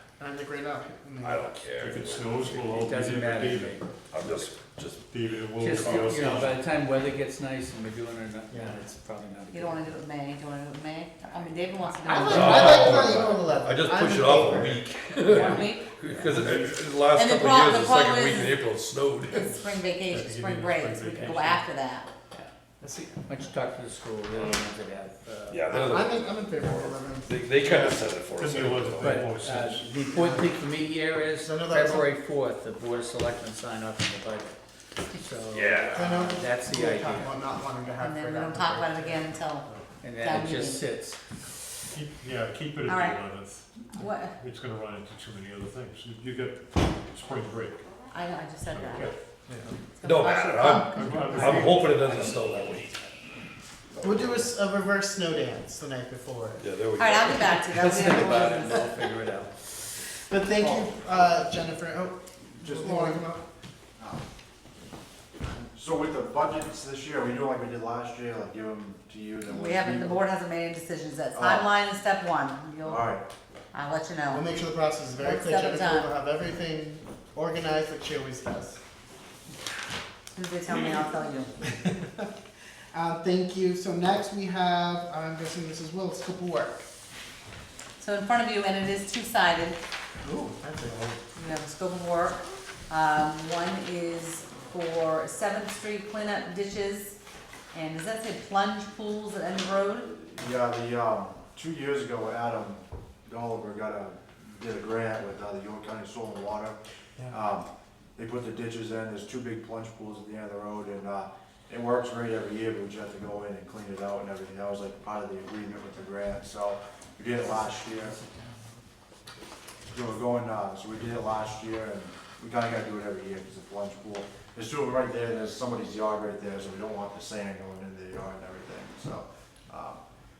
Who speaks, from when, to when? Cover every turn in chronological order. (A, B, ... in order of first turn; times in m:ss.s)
0:00.2-0:01.5 A
0:01.2-0:02.6 B
0:01.8-0:03.9 C
0:02.5-0:03.8 D
0:04.1-0:05.0 B
0:05.0-0:06.6 C
0:05.6-0:09.9 D
0:08.5-0:08.8 A
0:09.5-0:13.1 E
0:12.0-0:14.8 A
0:12.2-0:19.5 B
0:15.3-0:15.6 D
0:15.3-0:15.9 E
0:15.6-0:16.9 C
0:17.1-0:18.6 E
0:19.3-0:22.1 E
0:19.5-0:21.7 C
0:22.8-0:23.2 A
0:23.2-0:25.9 D
0:25.5-0:29.4 B
0:25.6-0:27.4 A
0:27.6-0:30.3 C
0:29.0-0:34.5 D
0:31.4-0:32.1 A
0:35.1-0:35.3 E
0:35.1-0:37.3 D
0:35.5-0:36.2 B
0:35.9-0:39.4 A
0:38.0-0:40.8 E
0:40.0-0:41.2 D
0:41.9-0:47.8 C
0:42.8-0:43.2 E
0:43.8-0:44.4 E
0:48.1-0:49.2 E
0:48.6-0:49.7 C
0:49.9-0:51.6 E
0:50.0-0:53.0 B
0:50.8-0:52.3 C
0:51.1-0:51.6 A
0:51.2-0:52.4 D
0:54.0-0:56.6 A
0:56.6-0:57.6 B
0:57.0-0:58.9 E
0:57.5-0:59.5 D
1:00.3-1:03.4 A
1:02.6-1:03.0 F
1:02.8-1:03.2 E
1:04.0-1:04.2 F
1:05.5-1:10.2 F
1:09.5-1:13.2 E
1:11.3-1:11.7 F
1:12.8-1:13.3 F
1:13.7-1:14.5 E
1:14.3-1:18.8 A
1:15.2-1:16.1 E
1:20.3-1:21.5 E
1:21.7-1:22.2 A
1:22.9-1:26.8 A
1:28.0-1:29.8 E
1:30.6-1:31.1 A
1:31.3-1:37.2 E
1:37.7-1:40.1 E
1:40.0-1:46.8 F
1:47.3-1:58.2 F
1:57.8-1:58.7 D
1:59.9-2:10.0 F